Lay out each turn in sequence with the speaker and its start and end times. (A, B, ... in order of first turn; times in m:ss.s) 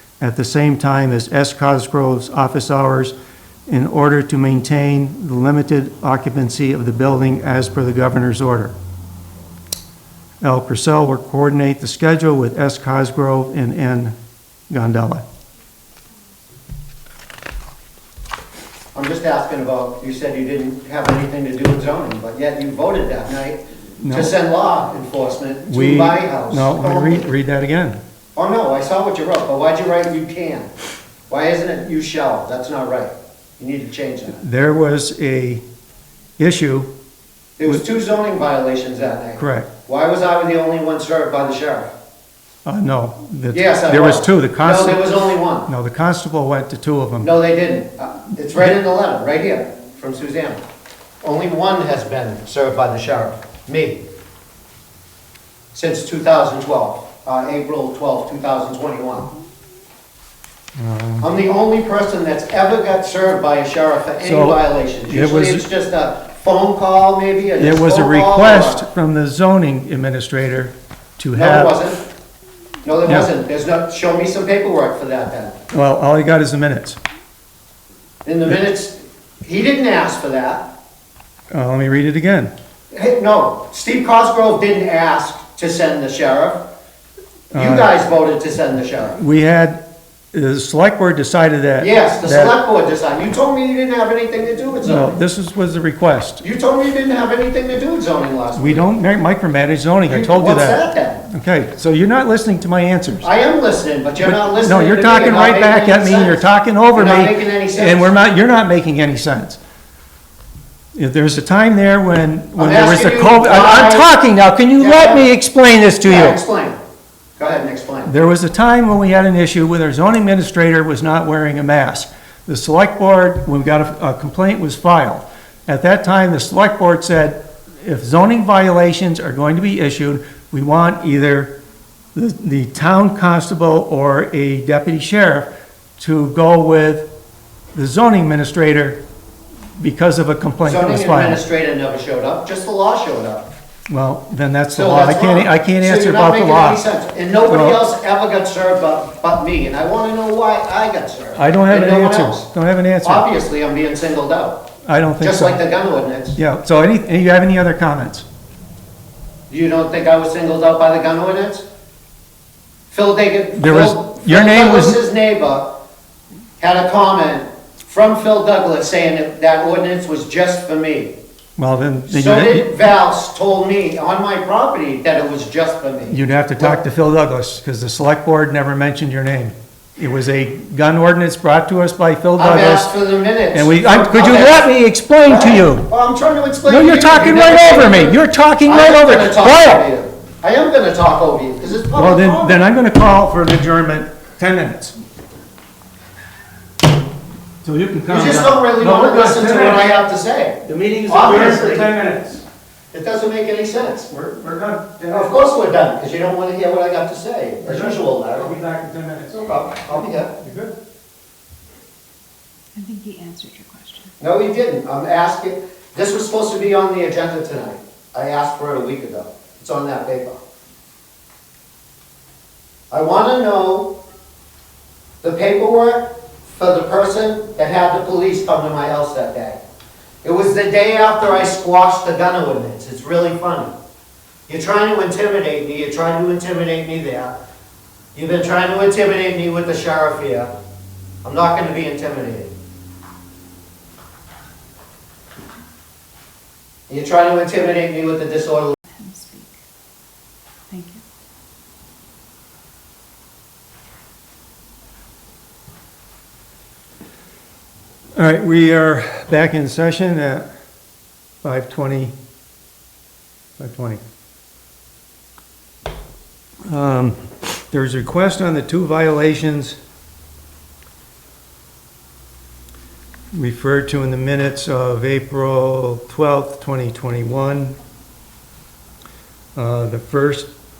0:00.2-0:03.1 A
0:03.7-0:08.7 A
0:10.4-0:14.1 A
0:14.7-0:15.2 A
0:18.9-0:27.2 B
0:24.0-0:24.3 A
0:25.7-0:28.0 A
0:28.4-0:30.7 B
0:31.3-0:34.4 B
0:34.3-0:35.6 A
0:36.4-0:36.9 A
0:37.6-0:41.9 B
0:39.4-0:39.7 A
0:42.6-0:45.1 A
0:43.5-0:45.7 B
0:45.6-0:47.3 A
0:47.2-0:50.6 B
0:51.2-0:54.0 B
0:55.7-0:59.3 B
1:00.8-1:01.2 A
1:01.2-1:08.8 B
1:04.2-1:05.7 A
1:07.6-1:11.8 A
1:11.3-1:12.0 B
1:12.8-1:15.6 B
1:15.7-1:17.0 A
1:18.2-1:20.7 B
1:21.5-1:22.5 A
1:22.9-1:26.6 B
1:27.5-1:27.9 A
1:27.5-1:29.2 B
1:29.2-1:32.5 A
1:31.8-1:35.2 B
1:34.8-1:36.4 A
1:36.4-1:38.8 B
1:38.5-1:43.3 A
1:40.1-1:41.2 B
1:43.2-1:48.1 B
1:44.2-1:49.6 A
1:51.0-1:56.4 A
1:52.6-1:54.1 B
1:54.8-1:55.3 B
1:56.0-1:56.8 B
1:57.4-1:58.1 B
1:58.0-2:11.5 A
2:12.1-2:17.1 A
2:17.7-2:19.0 A
2:19.8-2:21.4 A
2:20.6-2:23.5 B
2:23.9-2:26.8 A
2:24.7-2:32.5 B
2:27.4-2:27.8 A
2:31.4-2:33.2 A
2:33.0-2:34.6 B
2:34.9-2:35.6 A
2:35.2-2:36.4 B
2:36.3-2:38.2 A
2:39.5-2:41.6 B
2:42.9-2:45.7 B
2:43.6-2:45.0 A
2:46.6-2:51.2 B
2:51.6-2:52.7 A
2:52.1-2:56.8 B
2:56.1-3:02.9 A
3:02.4-3:04.7 B
3:03.5-3:05.9 A
3:05.3-3:12.6 B
3:06.6-3:09.8 A
3:11.9-3:15.0 A
3:17.6-3:19.9 A
3:18.1-3:21.9 B
3:20.6-3:22.4 A
3:22.9-3:24.1 B
3:24.1-3:25.3 A
3:25.1-3:28.5 B
3:27.6-3:30.8 A
3:29.8-3:30.3 B
3:32.7-3:34.1 C
3:34.2-3:40.4 B
3:42.9-3:43.9 B
3:45.2-3:49.6 B
3:50.2-3:53.7 B
3:54.5-3:57.4 B
3:58.1-4:00.5 B
4:01.2-4:02.5 B
4:06.9-4:08.8 B
4:08.9-4:09.5 C
4:10.7-4:11.0 C
4:18.2-4:20.5 A
4:21.4-4:22.1 A
4:23.6-4:24.0 A
4:26.6-4:27.2 A
4:27.7-4:29.8 A
4:33.3-4:37.8 A
4:39.6-4:40.5 A